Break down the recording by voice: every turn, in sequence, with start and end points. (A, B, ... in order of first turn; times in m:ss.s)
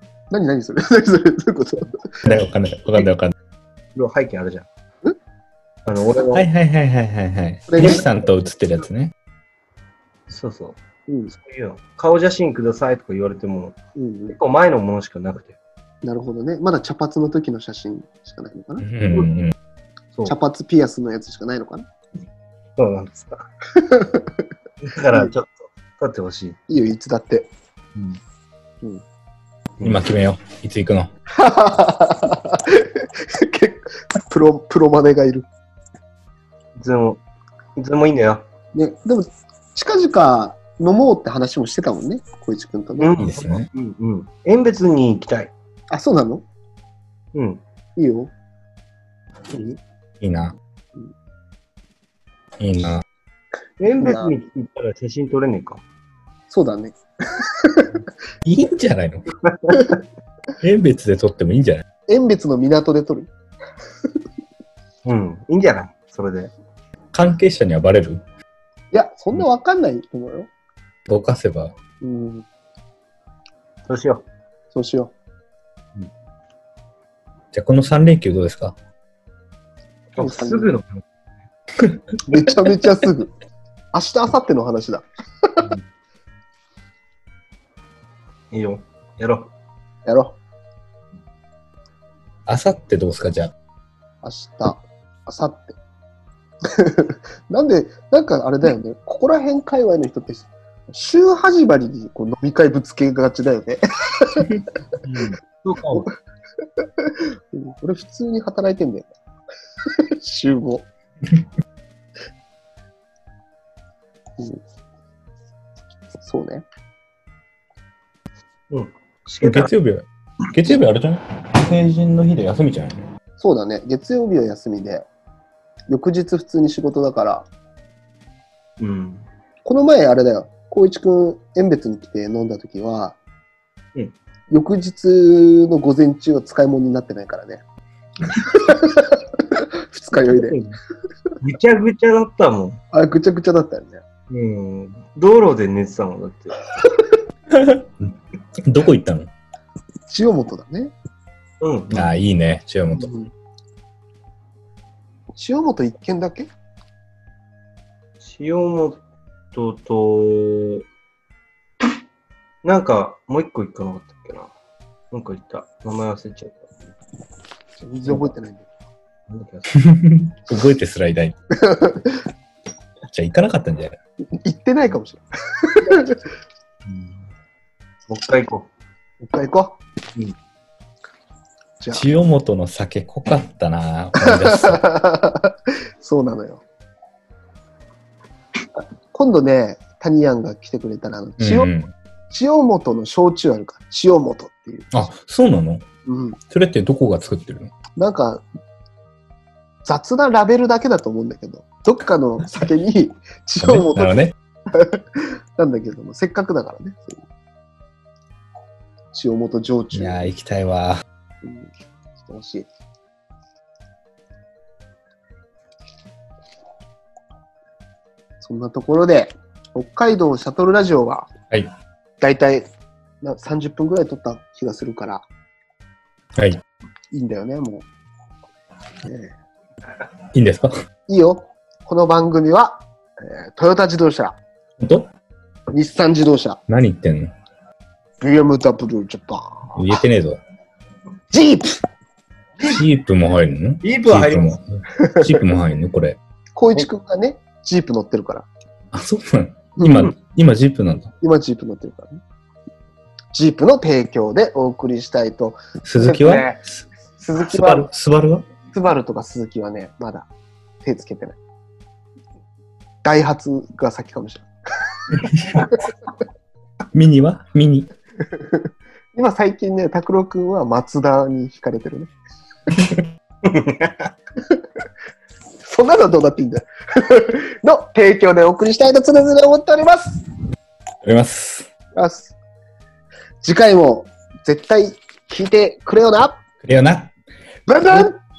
0:00.3-0:02.3 A
0:02.2-0:03.3 B
0:03.9-0:04.7 C
0:05.8-0:06.5 C
0:06.2-0:09.1 B
0:07.7-0:08.0 A
0:07.8-0:08.1 C
0:10.3-0:10.8 C
0:11.3-0:13.8 C
0:13.9-0:14.4 A
0:14.3-0:15.6 C
0:16.0-0:18.9 A
0:18.8-0:19.5 B
0:20.2-0:21.8 A
0:22.8-0:23.5 C
0:23.7-0:24.4 A
0:24.8-0:26.6 C
0:26.7-0:27.5 A
0:27.9-0:28.2 C
0:29.8-0:31.1 B
0:31.3-0:35.5 A
0:36.8-0:37.2 C
0:37.8-0:38.4 C
0:38.7-0:43.2 A
0:43.0-0:45.5 C
0:43.2-0:43.7 B
0:45.9-0:46.4 A
0:47.3-0:47.6 C
0:48.0-0:48.3 A
0:49.5-0:49.8 C
0:50.2-0:50.6 B
0:52.6-0:53.0 B
0:53.8-0:55.8 C
0:54.0-0:54.3 A
0:56.5-0:58.0 A
0:58.4-0:59.2 B
0:59.4-0:59.8 C
0:59.7-1:00.0 A
1:00.6-1:01.8 B
1:02.1-1:03.3 A
1:05.0-1:06.5 C
1:07.1-1:08.2 B
1:08.9-1:10.5 A
1:11.1-1:11.7 B
1:12.0-1:12.4 A
1:13.9-1:14.2 C
1:14.7-1:15.1 A
1:17.5-1:18.8 B
1:20.2-1:21.0 C
1:20.2-1:20.7 A
1:22.3-1:23.3 A
1:23.9-1:25.7 A
1:28.5-1:29.5 C
1:30.0-1:30.4 A
1:32.5-1:33.5 B
1:34.2-1:35.8 A
1:36.6-1:44.9 A
1:45.0-1:46.1 C
1:46.8-1:49.1 A
1:49.9-1:50.9 A
1:56.2-1:56.6 A
1:58.7-1:59.7 C
1:59.4-2:03.1 B
2:03.4-2:05.1 A
2:05.9-2:07.5 A
2:08.8-2:09.2 C
2:09.6-2:13.2 A
2:14.5-2:17.6 A
2:18.3-2:20.6 A
2:20.1-2:20.8 C
2:21.4-2:22.8 C
2:22.9-2:24.0 A
2:24.3-2:26.6 C
2:27.5-2:27.9 B
2:28.6-2:29.3 B
2:30.1-2:30.9 A
2:31.6-2:32.1 C
2:31.9-2:33.1 B
2:33.0-2:33.3 A
2:35.4-2:36.5 A
2:38.2-2:39.0 C
2:39.5-2:40.8 C
2:42.6-2:44.5 C
2:45.1-2:46.9 C
2:47.8-2:48.7 A
2:49.3-2:49.9 C
2:49.7-2:51.4 B
2:51.5-2:52.2 A
2:53.1-2:54.0 B
2:54.4-2:56.2 A
2:56.8-2:57.3 C
2:58.1-2:58.7 C
2:59.2-2:59.8 A
3:01.9-3:04.8 B
3:04.2-3:06.6 A
3:09.1-3:11.7 A
3:11.4-3:11.9 B
3:12.3-3:15.1 A
3:14.9-3:15.8 B
3:16.0-3:16.4 A
3:16.5-3:17.7 B
3:18.0-3:18.4 A
3:19.8-3:24.2 A
3:23.6-3:24.4 B
3:24.7-3:27.2 A
3:29.1-3:30.3 A
3:29.9-3:31.0 B
3:31.4-3:32.7 A
3:38.4-3:41.3 A
3:42.2-3:42.7 A
3:43.2-3:45.2 A
3:46.3-3:46.6 B
3:47.1-3:47.8 A
3:49.0-3:49.3 A
3:50.3-3:50.7 B
3:51.1-3:54.4 A
3:54.8-3:55.1 B
3:55.7-3:56.6 A
3:56.7-3:57.3 B
3:58.2-3:59.8 A
3:59.7-4:00.4 B
4:01.3-4:01.8 A
4:02.6-4:06.2 B
4:03.8-4:04.6 C
4:05.0-4:05.3 A
4:06.6-4:08.5 A
4:08.9-4:11.1 B
4:09.8-4:10.1 A
4:11.2-4:12.2 A
4:13.3-4:16.6 A
4:15.8-4:16.6 B
4:17.2-4:17.9 A
4:17.4-4:18.4 B
4:18.7-4:20.3 A
4:20.8-4:21.4 A
4:23.0-4:24.5 A
4:25.1-4:25.8 A
4:25.4-4:25.6 B
4:26.9-4:27.9 B
4:28.3-4:32.1 A
4:33.4-4:34.1 C
4:35.6-4:40.2 A
4:41.0-4:41.7 B
4:42.0-4:42.3 A
4:43.4-4:46.4 A
4:46.6-4:47.1 B
4:47.7-4:48.2 A